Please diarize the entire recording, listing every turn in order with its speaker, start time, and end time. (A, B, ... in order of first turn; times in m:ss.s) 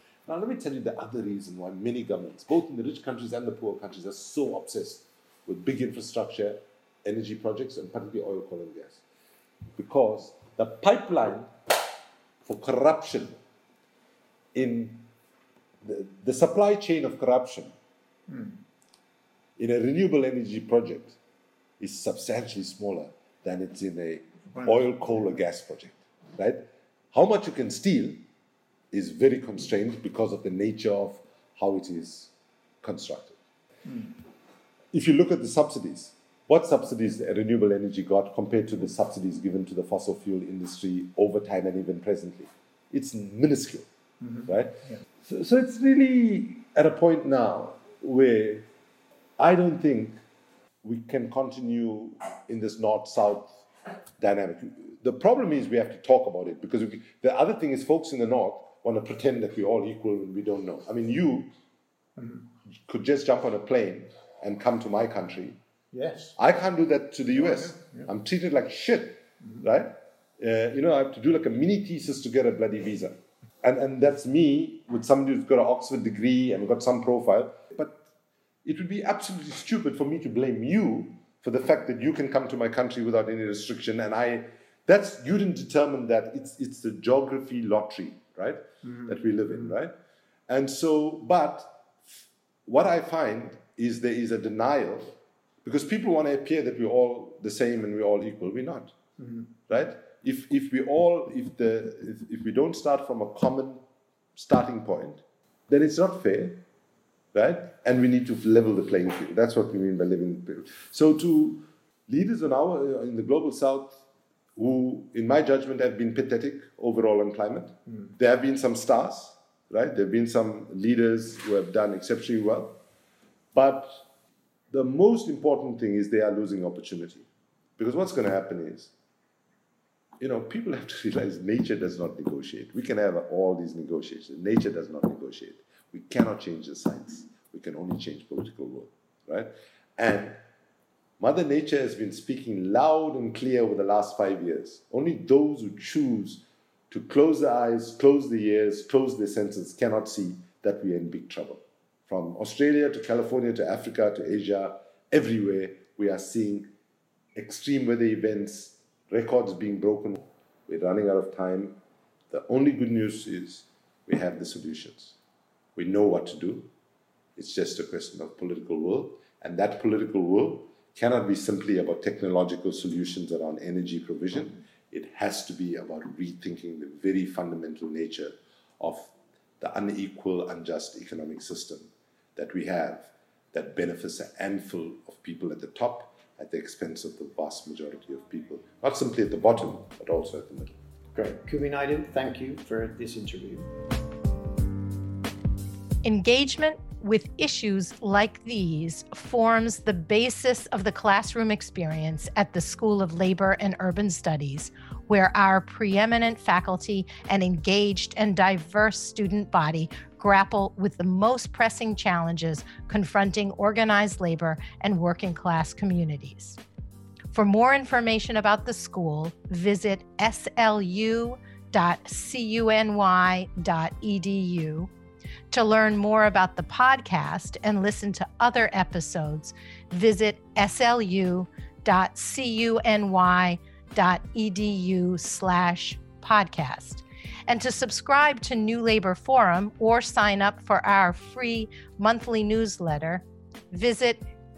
0:00.3-0:09.0 A
0:09.8-0:11.5 A
0:12.4-0:13.4 A
0:14.6-0:15.1 A
0:15.8-0:17.7 A
0:18.3-0:18.6 B
0:19.6-0:21.2 A
0:21.8-0:26.6 A
0:27.1-0:28.2 A
0:28.9-0:33.4 A
0:34.9-0:43.9 A
0:44.4-0:48.7 A
0:49.4-0:50.2 A
0:50.8-0:53.6 A
0:54.2-1:01.5 A
1:02.9-1:05.6 A
1:05.9-1:06.4 B
1:06.4-1:18.0 A
1:07.5-1:08.1 B
1:18.6-1:29.9 A
1:28.8-1:29.2 B
1:30.5-1:38.9 A
1:39.2-1:39.5 B
1:39.7-1:43.8 A
1:44.4-1:46.6 A
1:47.3-1:54.0 A
1:54.6-2:02.8 A
2:03.5-2:04.0 A
2:04.7-2:07.3 A
2:07.8-2:08.9 A
2:10.2-2:20.4 A
2:21.2-2:36.7 A
2:37.4-2:41.8 A
2:42.3-2:45.2 A
2:45.8-2:46.7 A
2:47.4-3:10.8 A
3:11.2-3:13.7 B
3:16.0-3:36.6 C
3:37.3-3:44.9 C
3:45.5-4:04.2 C